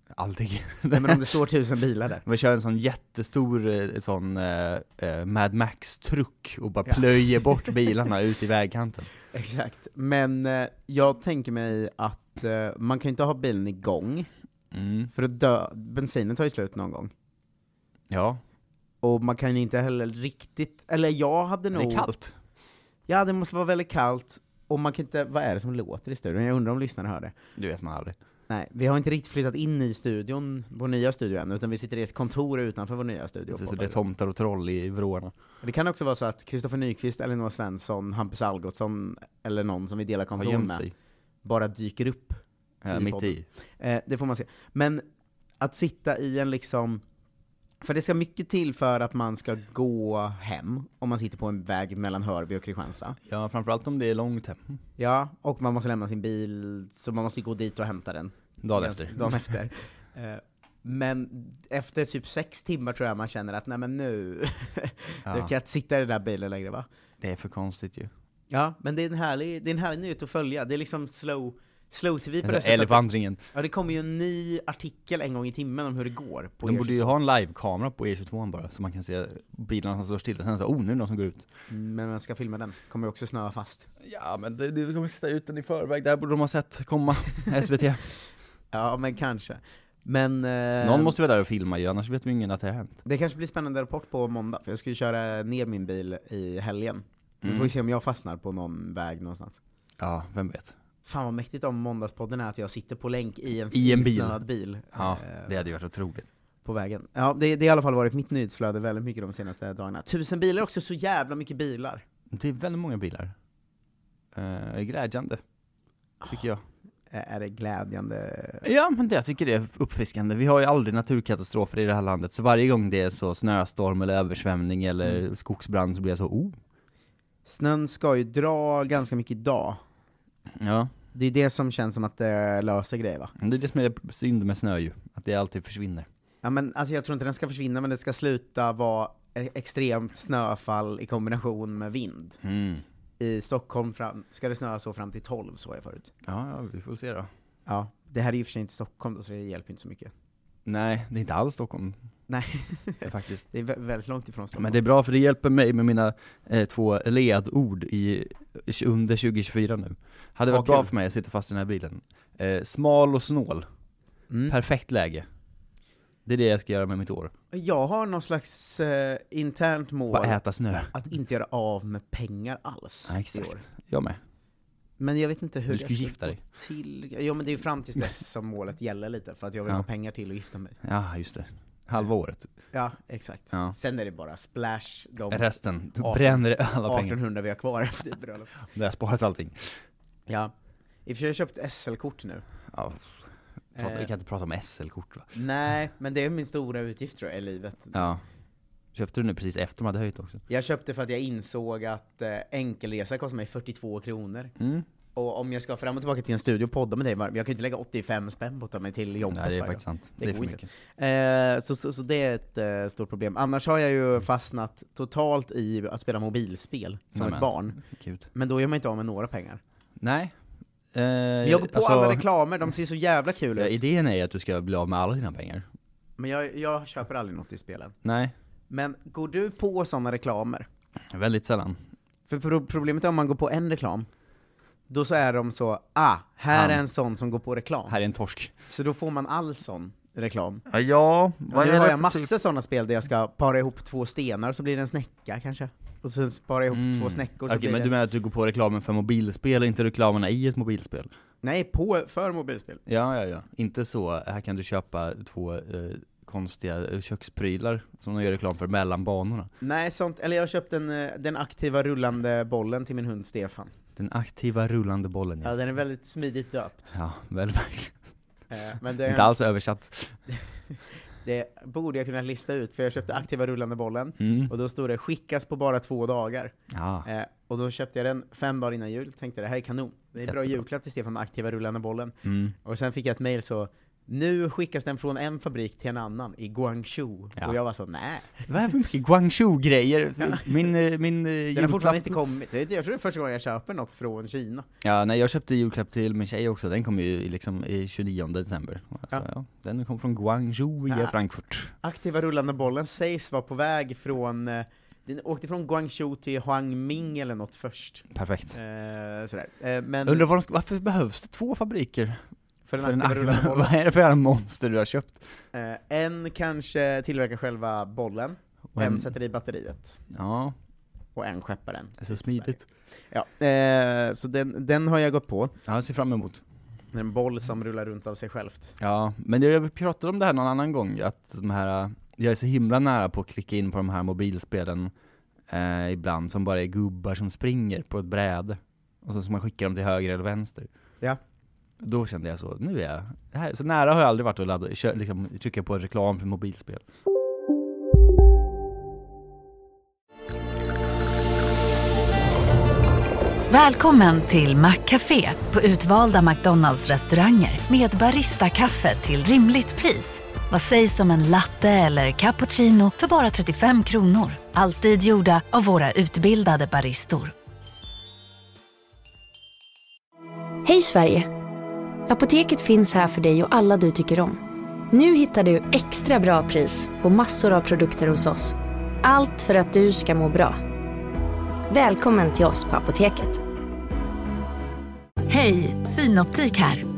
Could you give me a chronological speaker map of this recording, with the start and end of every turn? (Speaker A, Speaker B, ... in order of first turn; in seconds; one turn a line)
Speaker A: 0.2-1.3
Speaker B: 0.9-2.2
Speaker A: 2.2-9.1
Speaker B: 9.3-14.3
Speaker A: 14.7-15.1
Speaker B: 15.1-17.1
Speaker A: 18.1-18.4
Speaker B: 19.0-22.1
Speaker A: 21.7-22.3
Speaker B: 23.1-27.3
Speaker A: 27.6-28.1
Speaker B: 28.5-34.0
Speaker A: 33.5-35.3
Speaker B: 35.6-40.8
Speaker A: 40.4-40.9
Speaker B: 41.4-45.0
Speaker A: 42.8-43.5
Speaker B: 45.6-47.0
Speaker B: 47.8-53.2
Speaker A: 53.3-54.7
Speaker B: 55.0-66.8
Speaker A: 58.6-59.4
Speaker A: 65.2-65.5
Speaker A: 67.2-68.1
Speaker B: 68.5-77.1
Speaker A: 72.4-73.4
Speaker A: 76.6-81.5
Speaker B: 81.7-83.9
Speaker A: 84.0-88.0
Speaker B: 88.7-91.1
Speaker A: 90.8-93.0
Speaker B: 93.0-99.6
Speaker A: 97.4-97.7
Speaker A: 100.0-100.7
Speaker B: 101.0-105.5
Speaker A: 103.7-104.4
Speaker A: 104.9-106.3
Speaker B: 106.6-112.0
Speaker A: 112.3-113.3
Speaker A: 114.3-115.4
Speaker A: 116.2-116.6
Speaker B: 117.1-118.7
Speaker A: 118.6-126.5
Speaker B: 127.5-129.8
Speaker A: 130.6-130.9
Speaker B: 131.1-133.3
Speaker A: 133.4-136.1
Speaker B: 136.4-142.4
Speaker A: 142.4-142.8
Speaker B: 143.2-146.1
Speaker A: 146.2-147.3
Speaker B: 147.7-150.1
Speaker A: 150.7-152.0
Speaker B: 152.3-154.8
Speaker A: 153.0-153.4
Speaker A: 154.6-163.6
Speaker B: 160.5-160.9
Speaker B: 164.3-164.6
Speaker A: 164.5-165.2
Speaker A: 166.2-167.3
Speaker B: 167.5-170.4
Speaker A: 170.1-170.9
Speaker B: 170.9-173.6
Speaker A: 173.1-174.2
Speaker B: 175.0-180.8
Speaker A: 175.7-176.4
Speaker A: 180.8-182.5
Speaker B: 182.7-188.5
Speaker A: 185.3-187.2
Speaker A: 188.7-189.7
Speaker B: 190.3-190.5
Speaker B: 191.1-192.4
Speaker A: 192.7-193.2
Speaker A: 193.7-195.3
Speaker B: 193.8-194.1
Speaker B: 195.3-198.1
Speaker A: 197.9-198.2
Speaker A: 198.9-200.4
Speaker B: 200.5-204.5
Speaker A: 204.6-204.8
Speaker B: 205.1-217.8
Speaker A: 209.3-210.7
Speaker A: 217.1-218.3
Speaker B: 218.3-219.6
Speaker A: 220.0-220.3
Speaker A: 220.9-222.2
Speaker B: 221.4-223.7
Speaker A: 223.6-225.6
Speaker B: 226.2-227.9
Speaker A: 228.0-228.3
Speaker B: 228.7-230.7
Speaker A: 231.1-231.8
Speaker B: 232.3-234.1
Speaker B: 234.9-238.0
Speaker A: 236.5-236.8
Speaker A: 237.9-238.5
Speaker B: 238.7-240.6
Speaker A: 240.7-242.3
Speaker B: 241.5-247.9
Speaker A: 246.7-251.1
Speaker B: 251.4-252.8
Speaker A: 252.9-259.5
Speaker B: 259.6-263.7
Speaker A: 264.0-265.5
Speaker B: 265.4-266.9
Speaker A: 266.9-267.9
Speaker B: 268.5-269.3
Speaker A: 269.1-270.1
Speaker B: 271.2-276.5
Speaker A: 274.2-274.5
Speaker A: 276.7-277.1
Speaker B: 277.1-288.4
Speaker A: 280.2-280.6
Speaker A: 282.2-282.5
Speaker A: 288.5-292.2
Speaker B: 291.5-294.6
Speaker A: 294.8-301.7
Speaker B: 300.9-301.1
Speaker B: 301.8-310.3
Speaker A: 308.1-308.6
Speaker A: 310.0-312.2
Speaker B: 312.6-313.7
Speaker A: 312.8-315.2
Speaker B: 315.5-320.0
Speaker A: 318.7-319.1
Speaker A: 320.1-320.5
Speaker B: 321.1-322.6
Speaker A: 322.0-322.6
Speaker B: 323.1-325.5
Speaker A: 325.6-326.4
Speaker B: 326.9-328.8
Speaker A: 328.8-334.9
Speaker A: 335.5-340.7
Speaker A: 341.8-346.8
Speaker C: 353.5-367.3
Speaker D: 370.6-371.3
Speaker D: 372.1-374.4
Speaker D: 374.9-380.6
Speaker D: 381.7-383.4
Speaker C: 385.3-386.8